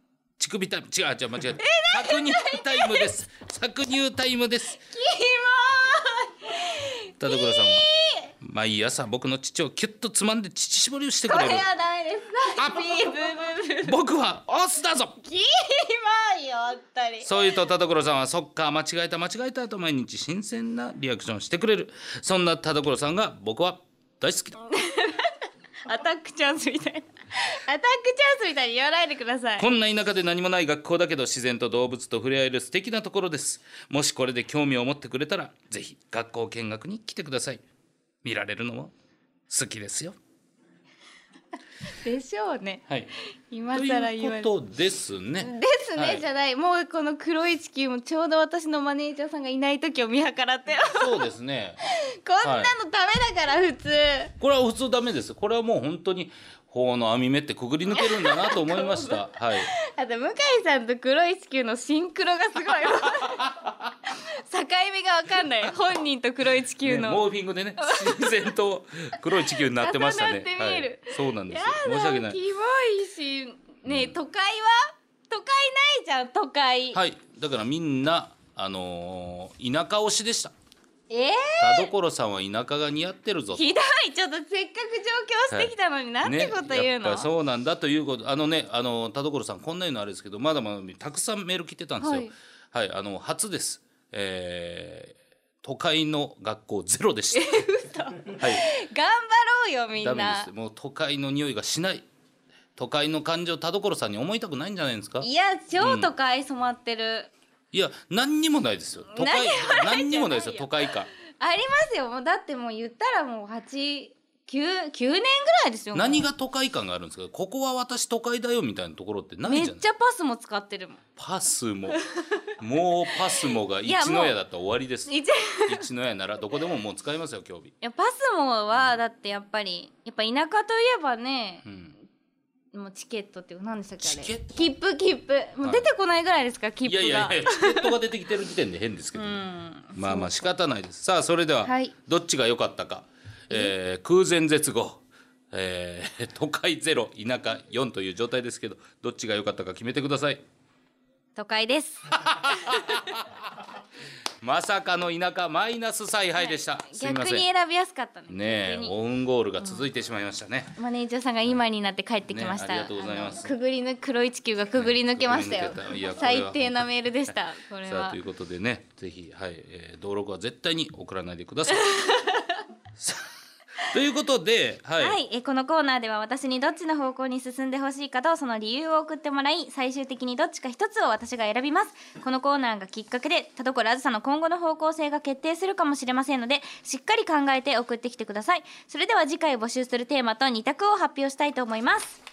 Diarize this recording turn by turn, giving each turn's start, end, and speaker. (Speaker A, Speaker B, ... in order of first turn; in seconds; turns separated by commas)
Speaker A: 0.4-4.8, Speaker B: 1.6-3.1, Speaker B: 4.7-8.3, Speaker A: 7.2-7.9, Speaker A: 8.4-11.7, Speaker B: 11.3-13.9, Speaker A: 12.6-13.2, Speaker A: 13.8-15.2, Speaker B: 15.2-17.6, Speaker A: 17.2-24.6, Speaker B: 24.6-29.7, Speaker A: 29.6-37.6, Speaker A: 38.2-38.9, Speaker A: 39.5-40.1, Speaker B: 41.9-42.8, Speaker B: 43.5-44.5, Speaker A: 43.7-46.2, Speaker B: 45.4-51.3, Speaker A: 50.9-51.8, Speaker B: 51.9-54.3, Speaker A: 52.4-52.7, Speaker A: 54.4-59.7, Speaker B: 57.9-67.2, Speaker A: 66.8-72.4, Speaker B: 67.8-68.5, Speaker B: 69.5-77.0, Speaker A: 73.8-74.2, Speaker A: 76.9-80.5, Speaker B: 81.1-81.9, Speaker A: 81.6-83.7, Speaker B: 83.5-87.3, Speaker A: 85.5-97.5, Speaker B: 92.0-92.3, Speaker B: 97.3-100.5, Speaker A: 98.3-98.6, Speaker A: 100.0-102.1, Speaker A: 102.8-105.3, Speaker B: 105.2-107.3, Speaker A: 105.8-106.1, Speaker A: 107.7-111.1, Speaker B: 109.1-116.3, Speaker A: 115.9-119.8, Speaker B: 119.4-121.0, Speaker A: 121.2-122.0, Speaker B: 121.9-122.2, Speaker A: 122.6-125.1, Speaker B: 123.3-124.4, Speaker B: 125.1-125.8, Speaker A: 125.7-127.7, Speaker B: 127.8-131.6, Speaker A: 128.7-129.0, Speaker A: 131.6-131.9, Speaker B: 132.7-138.0, Speaker A: 134.0-134.6, Speaker A: 135.6-135.9, Speaker A: 136.8-139.4, Speaker B: 139.1-140.5, Speaker A: 139.9-150.4, Speaker B: 141.6-141.9, Speaker B: 151.3-152.1, Speaker A: 152.1-153.3, Speaker B: 152.7-153.0, Speaker A: 154.4-157.5, Speaker B: 156.4-158.9, Speaker A: 158.3-160.8, Speaker B: 159.6-159.8, Speaker B: 160.8-168.2, Speaker A: 162.3-163.6, Speaker A: 164.8-167.3, Speaker A: 167.8-171.9, Speaker B: 171.8-172.6, Speaker A: 172.9-173.3, Speaker A: 173.8-175.2, Speaker B: 175.0-192.2